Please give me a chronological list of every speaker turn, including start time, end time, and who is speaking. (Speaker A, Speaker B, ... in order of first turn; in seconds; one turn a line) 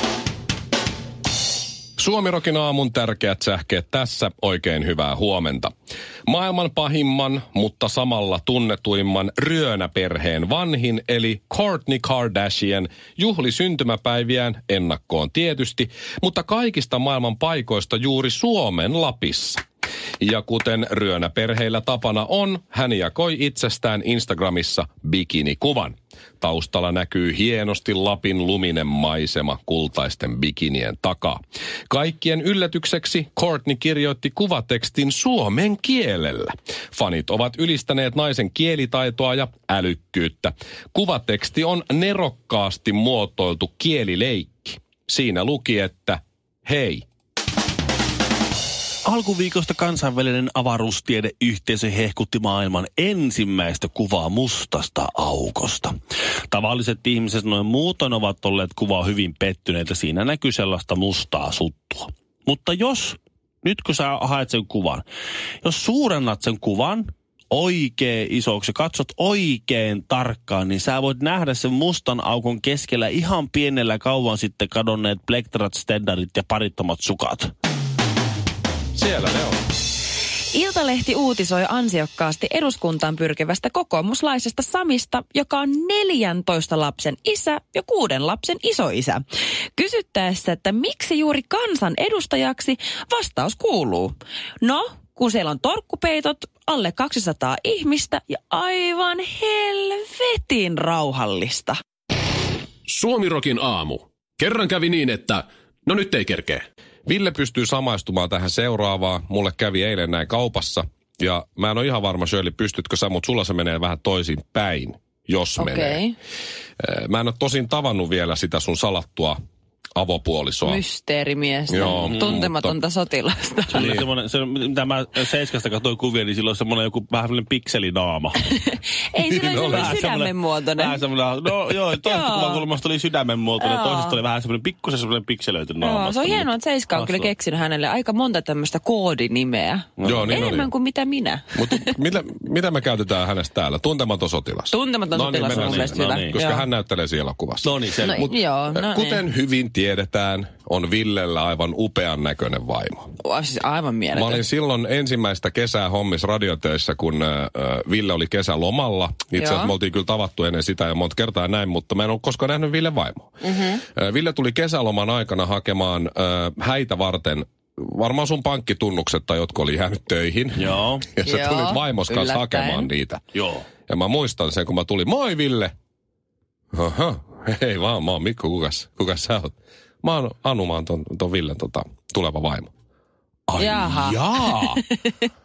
Speaker A: 2.0-5.7
Speaker A: 6.2-19.6
Speaker A: 20.2-31.4
Speaker A: 31.9-47.0
Speaker B: 49.0-55.9
Speaker B: 56.5-65.0
Speaker B: 65.6-77.5
Speaker A: 78.9-79.6
Speaker C: 80.5-89.2
Speaker C: 89.7-101.8
Speaker D: 102.9-106.6
Speaker A: 107.0-116.0
Speaker C: 115.6-116.1
Speaker A: 116.8-119.3
Speaker A: 120.0-120.8
Speaker C: 120.6-123.9
Speaker A: 121.7-122.8
Speaker B: 121.8-122.3
Speaker B: 123.7-128.4
Speaker A: 123.7-124.1
Speaker C: 128.4-131.0
Speaker A: 129.2-130.0
Speaker B: 129.5-137.3
Speaker C: 132.0-132.6
Speaker C: 133.6-134.2
Speaker C: 135.8-141.9
Speaker B: 140.0-140.5
Speaker A: 140.0-140.7
Speaker A: 141.5-153.1
Speaker C: 144.7-146.7
Speaker B: 145.4-146.4
Speaker B: 147.6-148.3
Speaker C: 148.0-149.2
Speaker C: 153.2-154.4
Speaker A: 154.1-173.2
Speaker C: 159.3-159.7
Speaker C: 163.4-163.8
Speaker B: 170.6-171.1
Speaker C: 171.2-172.9
Speaker B: 173.3-173.7
Speaker A: 173.9-175.7
Speaker A: 176.7-182.7
Speaker A: 183.5-184.8
Speaker C: 183.6-185.3